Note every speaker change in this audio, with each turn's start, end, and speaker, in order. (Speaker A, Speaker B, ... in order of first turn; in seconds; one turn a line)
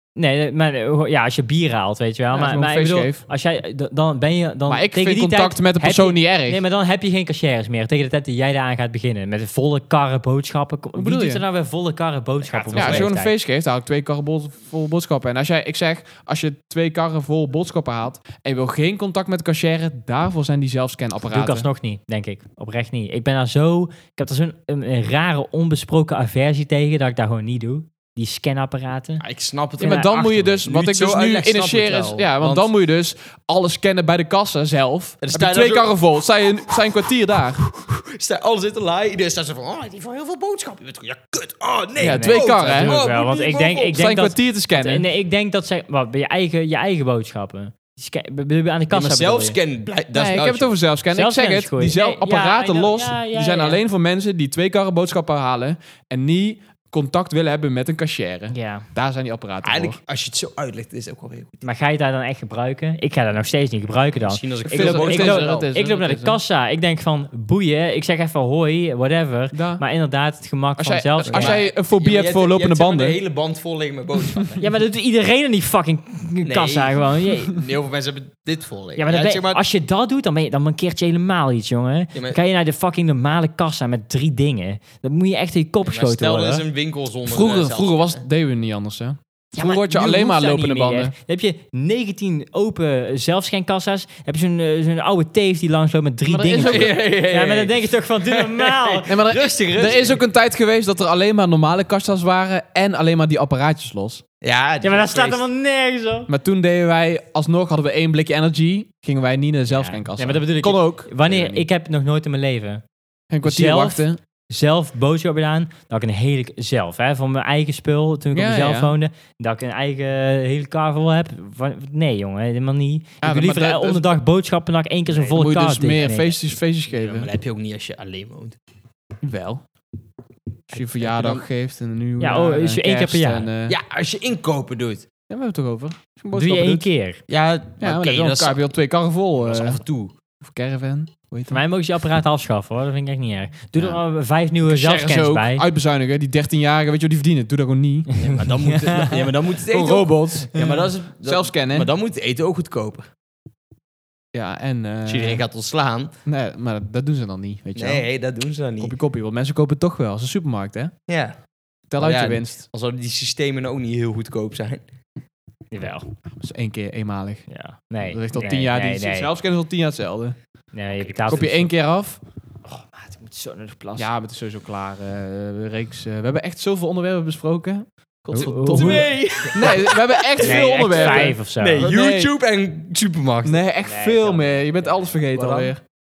Speaker A: 0.2-13.3
Speaker B: 2.3-3.2
Speaker B: 4.7-6.6
Speaker B: 10.9-11.4
Speaker C: 12.4-13.1
Speaker B: 12.8-21.7
Speaker A: 21.3-29.2
Speaker C: 29.2-32.7
Speaker B: 29.8-37.6
Speaker C: 35.2-36.0
Speaker C: 37.6-44.0
Speaker A: 42.0-49.6
Speaker B: 42.0-43.0
Speaker B: 43.9-45.1
Speaker C: 48.9-50.8
Speaker B: 50.1-60.0
Speaker A: 51.1-53.8
Speaker A: 58.5-58.9
Speaker C: 59.6-61.6
Speaker A: 61.6-71.6
Speaker C: 64.1-65.6
Speaker B: 64.7-66.4
Speaker B: 69.5-69.8
Speaker B: 70.8-73.2
Speaker C: 71.2-74.7
Speaker A: 74.6-77.6
Speaker C: 76.4-79.6
Speaker A: 79.0-86.6
Speaker C: 82.1-82.4
Speaker C: 85.8-88.2
Speaker B: 87.3-91.1
Speaker A: 89.5-99.2
Speaker B: 96.3-97.0
Speaker C: 96.6-100.2
Speaker B: 99.1-104.2
Speaker C: 104.4-105.4
Speaker A: 104.8-106.3
Speaker B: 106.3-111.7
Speaker A: 109.7-112.8
Speaker B: 113.3-114.2
Speaker A: 113.4-126.3
Speaker B: 118.3-118.9
Speaker B: 123.2-124.2
Speaker C: 125.1-125.4
Speaker B: 125.3-127.3
Speaker C: 126.9-128.6
Speaker B: 129.2-129.6
Speaker C: 130.7-131.5
Speaker B: 130.7-133.8
Speaker A: 132.2-133.5
Speaker C: 133.7-135.1
Speaker B: 135.3-136.9
Speaker A: 136.3-137.2
Speaker C: 137.3-138.6
Speaker B: 137.8-139.8
Speaker C: 139.4-140.1
Speaker B: 140.4-141.6
Speaker A: 141.5-145.7
Speaker B: 144.6-148.1
Speaker A: 148.1-149.3
Speaker C: 148.2-153.1
Speaker B: 149.7-151.9
Speaker B: 154.3-155.4
Speaker C: 155.1-156.1
Speaker B: 156.2-158.1
Speaker C: 157.8-159.0
Speaker B: 158.8-160.9
Speaker C: 161.1-161.4
Speaker B: 161.9-162.7
Speaker C: 162.0-164.8
Speaker A: 165.7-166.1
Speaker B: 166.4-170.4
Speaker A: 167.5-169.3
Speaker A: 170.7-171.7
Speaker C: 171.0-171.6
Speaker B: 171.3-172.2
Speaker A: 172.7-174.1
Speaker B: 174.0-182.3
Speaker C: 178.3-183.6
Speaker A: 178.3-179.1
Speaker A: 180.4-181.9
Speaker B: 183.4-185.8
Speaker A: 183.8-185.2
Speaker C: 185.3-185.7